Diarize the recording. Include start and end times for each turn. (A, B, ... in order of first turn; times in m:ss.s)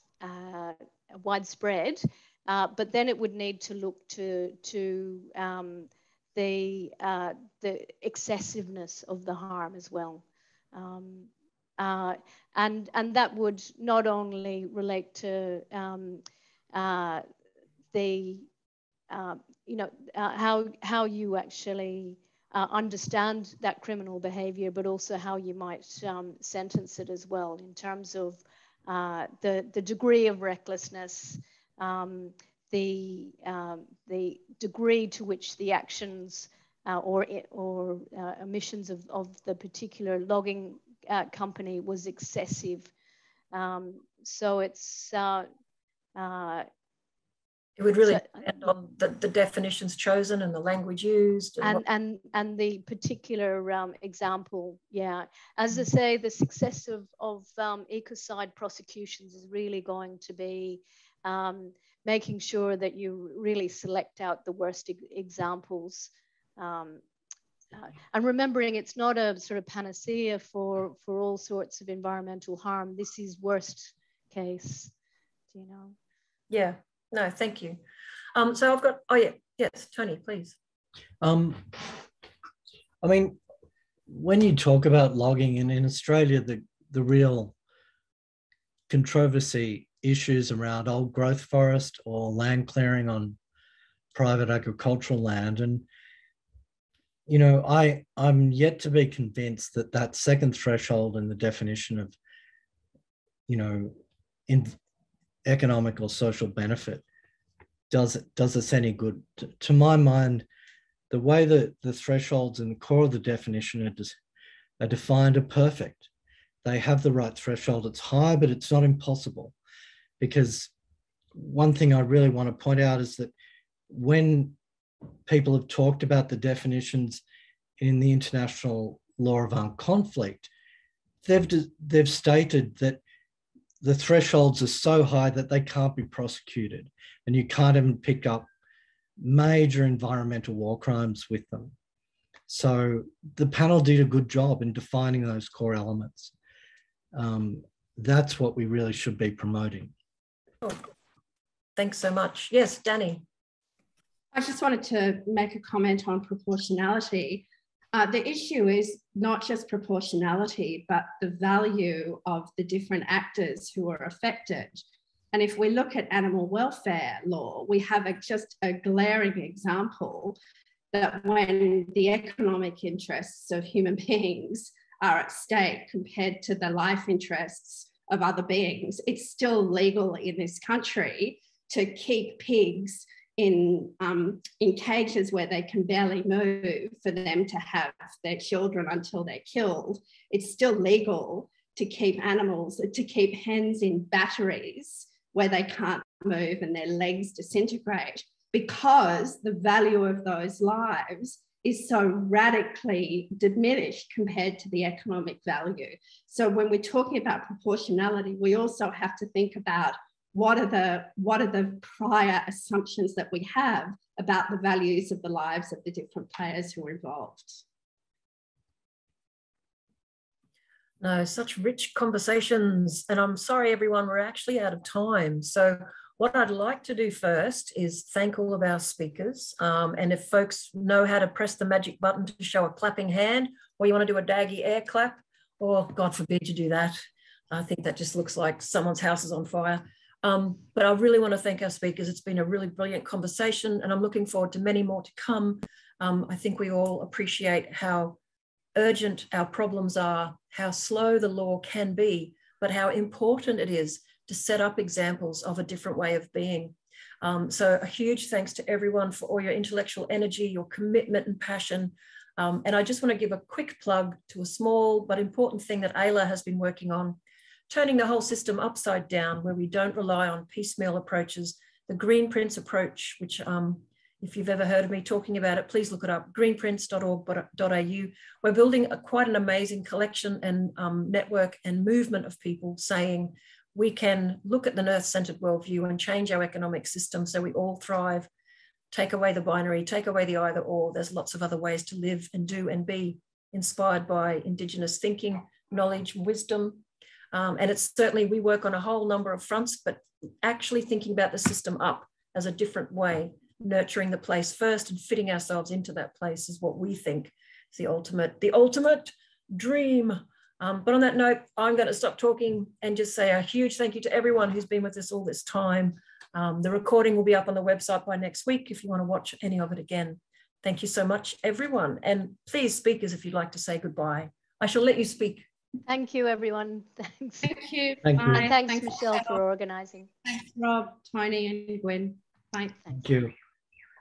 0:00.2-0:17.2 A
0:17.9-0:18.5 A
0:19.1-0:42.9 A
0:43.5-0:45.5 A
0:46.2-0:46.7 A
0:47.8-0:51.8 B
0:48.0-0:48.7 A
0:51.6-1:07.0 A
1:07.7-1:14.9 A
1:15.5-1:16.0 A
1:16.5-1:17.8 B
1:18.4-1:20.6 B
1:21.2-1:21.9 C
1:23.0-1:23.4 C
1:24.1-1:27.6 C
1:28.9-1:33.4 C
1:34.2-1:35.8 C
1:37.3-1:42.2 C
1:43.5-1:44.0 C
1:44.5-1:44.8 C
1:45.5-1:47.0 C
1:47.9-1:50.5 C
1:51.1-1:54.2 C
1:54.8-1:56.1 C
1:56.6-1:59.5 C
2:00.2-2:00.7 C
2:01.4-2:03.3 C
2:03.9-2:04.6 C
2:05.3-2:07.2 C
2:07.8-2:10.5 C
2:11.2-2:13.0 C
2:13.8-2:18.5 C
2:19.2-2:21.7 C
2:22.5-2:26.3 C
2:27.1-2:29.9 C
2:31.8-2:33.2 B
2:34.3-2:44.8 D
2:45.3-2:50.4 D
2:50.9-3:37.6 D
3:41.0-4:08.2 B
4:08.8-4:48.3 B
4:48.9-5:25.5 B
5:25.9-5:27.5 A
5:27.4-5:29.4 D
5:28.0-5:28.5 C
5:28.3-5:30.1 A
5:30.2-5:32.9 D
5:32.9-5:33.3 C